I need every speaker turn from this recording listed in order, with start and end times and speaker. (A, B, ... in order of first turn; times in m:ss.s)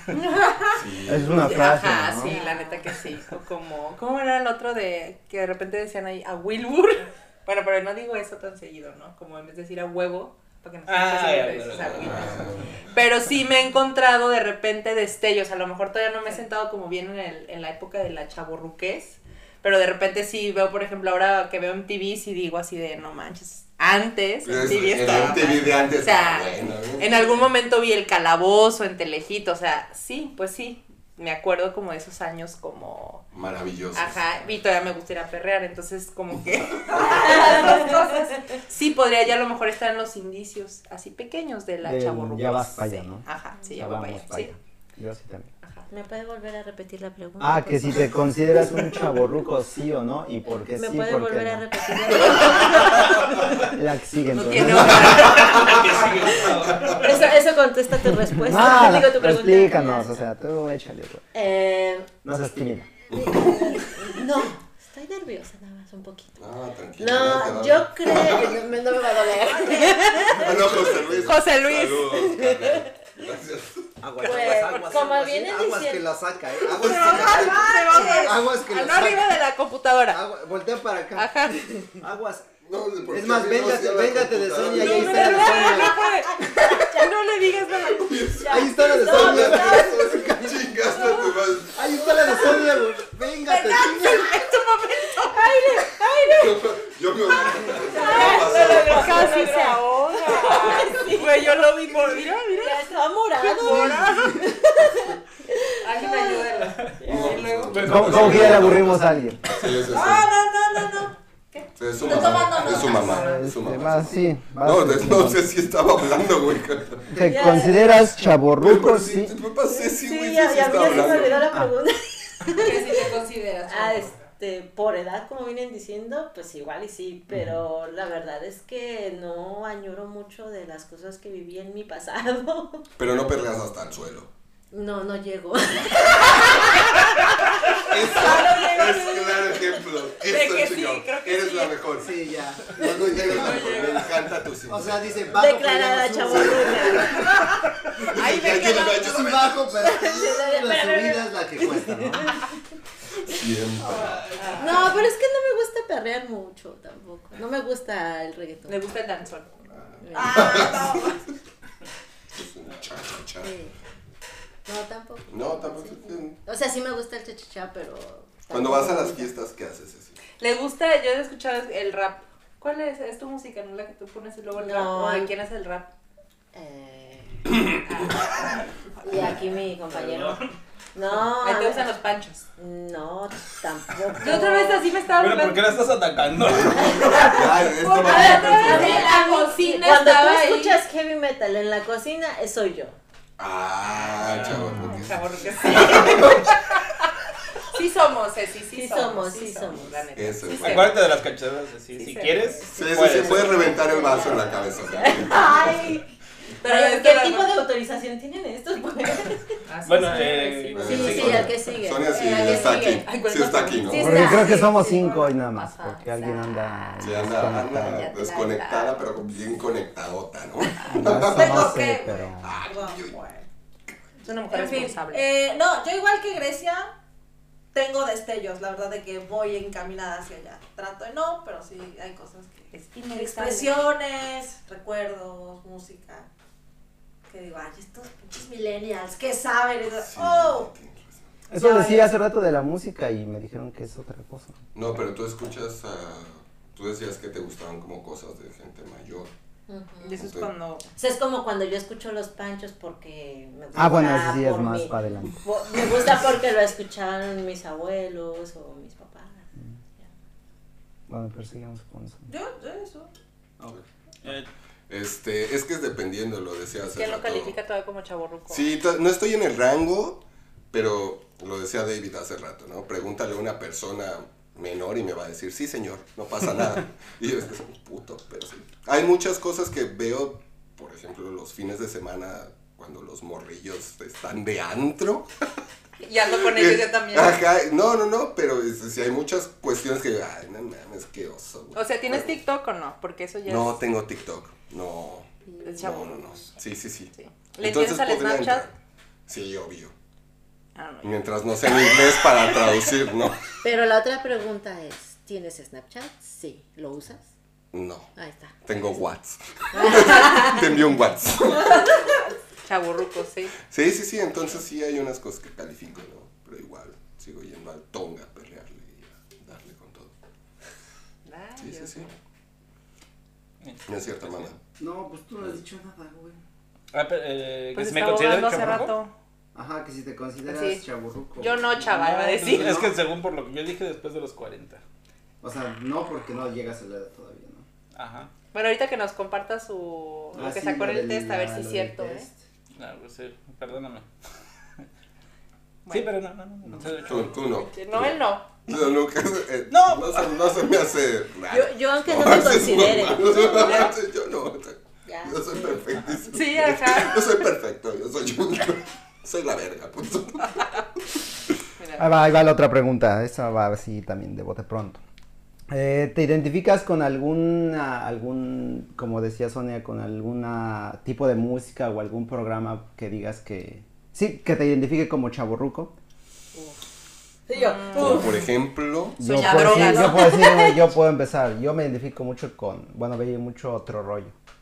0:00.1-0:00.8 A
0:00.8-0:01.8 B
0:01.1-0:02.4 C
0:01.3-0:33.2 D
0:02.2-0:02.9 E
0:10.9-0:12.7 F
0:11.8-0:12.7 B
0:24.4-0:27.3 B
0:33.3-0:34.3 B
0:33.9-0:44.6 D
0:37.0-0:38.1 E
0:41.8-0:45.5 C
0:45.6-0:45.9 D
0:45.9-0:48.2 E
0:47.4-0:51.6 C
0:50.5-0:53.6 E
0:53.6-0:55.4 C
0:54.3-0:56.1 D
0:55.3-0:56.1 B
0:55.4-0:57.4 F
0:56.7-0:57.0 B
0:57.0-1:00.1 E
0:58.3-1:01.2 C
1:01.3-1:02.1 E
1:02.2-1:02.9 C
1:03.1-1:03.9 B
1:03.2-1:06.4 E
1:06.4-1:08.6 B
1:07.0-1:11.0 E
1:10.3-1:13.9 B
1:11.1-1:12.2 D
1:12.2-1:12.9 E
1:14.0-1:19.4 C
1:14.2-1:16.1 E
1:16.7-1:20.2 D
1:16.8-1:17.6 B
1:17.1-1:18.4 A
1:20.1-1:22.5 C
1:21.2-1:21.9 D
1:22.6-1:25.6 B
1:23.1-1:26.0 C
1:24.7-1:28.1 D
1:25.0-1:27.1 E
1:27.9-1:31.8 B
1:28.4-1:30.0 E
1:28.5-1:30.8 C
1:29.1-1:29.5 D
1:31.7-1:34.4 C
1:32.0-1:32.8 D
1:33.4-1:35.8 D
1:35.2-1:36.6 E
1:36.3-1:39.3 B
1:37.9-1:42.8 D
1:37.9-1:48.4 E
1:38.1-1:39.5 A
1:40.3-1:40.9 A
1:43.4-1:44.4 D
1:43.7-1:44.2 C
1:45.8-1:47.5 D
1:47.0-1:49.0 B
1:47.7-1:48.9 F
1:47.8-1:49.5 C
1:49.5-1:50.3 B
1:49.9-1:51.1 A
1:51.5-1:53.5 D
1:51.8-1:57.1 B
1:52.0-1:53.3 A
1:53.0-1:55.5 C
1:57.1-1:59.3 C
1:57.2-1:58.1 E
1:58.6-2:01.5 B
1:59.8-2:03.0 E
2:02.6-2:04.3 D
2:03.7-2:12.8 E
2:07.3-2:07.6 C
2:13.0-2:14.3 B
2:14.7-2:19.1 E
2:17.9-2:22.1 B
2:18.0-2:19.6 D
2:20.2-2:21.8 D
2:22.0-2:23.8 C
2:22.7-2:25.4 B
2:23.3-2:24.1 D
2:24.7-2:27.4 C
2:25.4-2:27.4 E
2:26.3-2:27.4 B
2:27.9-2:30.2 B
2:28.0-2:29.2 D
2:29.0-2:32.4 C
2:29.8-2:32.4 E
2:33.2-2:34.3 B
2:34.0-2:34.9 D
2:34.6-2:38.8 E
2:38.7-2:39.5 D
2:39.8-2:41.1 B
2:40.0-2:40.7 E
2:40.1-2:41.2 A
2:42.4-2:43.5 B
2:43.4-2:43.8 E
2:44.7-2:49.3 E
2:45.3-2:46.4 B
2:48.5-2:50.2 B
2:50.4-2:55.9 D
2:54.5-2:55.3 E
2:56.5-2:57.5 E
2:57.9-2:58.6 D
2:59.0-3:01.9 E
2:59.9-3:00.4 F
3:01.3-3:02.5 D
3:02.6-3:04.9 E
3:04.2-3:05.7 D
3:05.2-3:07.4 F
3:06.4-3:09.2 B
3:06.9-3:13.0 E
3:07.6-3:10.8 D
3:13.4-3:16.6 B
3:14.2-3:14.8 F
3:14.3-3:16.6 D
3:14.7-3:15.0 C
3:17.7-3:21.0 D
3:18.7-3:20.1 E
3:20.2-3:21.1 B
3:20.6-3:23.5 F
3:22.0-3:22.7 D
3:22.6-3:26.1 E
3:22.7-3:25.9 B
3:23.9-3:24.3 D
3:26.6-3:27.6 D
3:26.6-3:29.5 E
3:29.7-3:31.4 D
3:29.9-3:31.5 F
3:30.7-3:34.3 B
3:30.8-3:33.2 E
3:32.3-3:37.2 D
3:33.8-3:35.1 E
3:33.9-3:38.1 C
3:37.0-3:41.9 B
3:37.8-3:39.0 D
3:40.9-3:42.6 C
3:41.3-3:43.5 A
3:42.4-3:43.2 B
3:44.2-3:45.2 D
3:44.5-3:46.9 A
3:47.7-3:56.3 A
3:52.7-3:53.8 D
3:57.3-4:00.7 A
4:00.0-4:01.3 B
4:01.5-4:04.6 C
4:01.6-4:02.1 A
4:04.7-4:09.3 B
4:09.7-4:10.2 E
4:10.0-4:10.8 D
4:10.2-4:10.5 B
4:11.0-4:19.5 E
4:13.8-4:15.4 C
4:21.1-4:22.3 C
4:22.3-4:23.1 A
4:24.9-4:27.6 B
4:26.9-4:28.7 D
4:28.5-4:45.3 B
4:46.0-4:47.4 D
4:46.3-4:52.4 B
4:51.7-4:53.8 D
4:53.5-4:58.7 B
4:55.5-4:55.9 E
4:55.6-4:56.5 D
4:57.1-4:58.7 D
4:59.3-4:59.9 B
5:00.8-5:01.2 D
5:01.0-5:03.5 B
5:03.6-5:07.2 E
5:07.7-5:08.1 B
5:08.2-5:08.6 E
5:08.6-5:12.0 B
5:09.7-5:10.7 E
5:12.6-5:13.5 D
5:13.7-5:20.1 B
5:21.3-5:22.2 D
5:21.6-5:22.1 B
5:23.6-5:24.5 F
5:23.9-5:24.6 B
5:24.8-5:26.4 C
5:26.9-5:29.0 F
5:27.7-5:29.1 D
5:29.6-5:33.0 C
5:30.5-5:30.8 D
5:31.4-5:32.8 D
5:31.9-5:34.8 F
5:35.4-5:37.7 C
5:38.0-5:38.3 F
5:38.5-5:42.3 D
5:40.3-5:42.4 C
5:42.8-5:44.1 F
5:45.9-5:46.1 D
5:45.9-5:47.4 F
5:47.0-6:00.7 B
5:47.6-5:48.5 D
5:49.7-5:50.5 F
5:51.5-5:54.0 E
5:55.1-5:55.8 E
5:56.3-5:57.3 D
6:01.8-6:02.1 D
6:02.0-6:05.0 C
6:05.7-6:15.9 C
6:17.5-6:18.4 E
6:17.5-6:18.4 D
6:17.9-6:19.8 B
6:19.2-6:24.4 C
6:19.2-6:20.8 D
6:19.8-6:20.3 E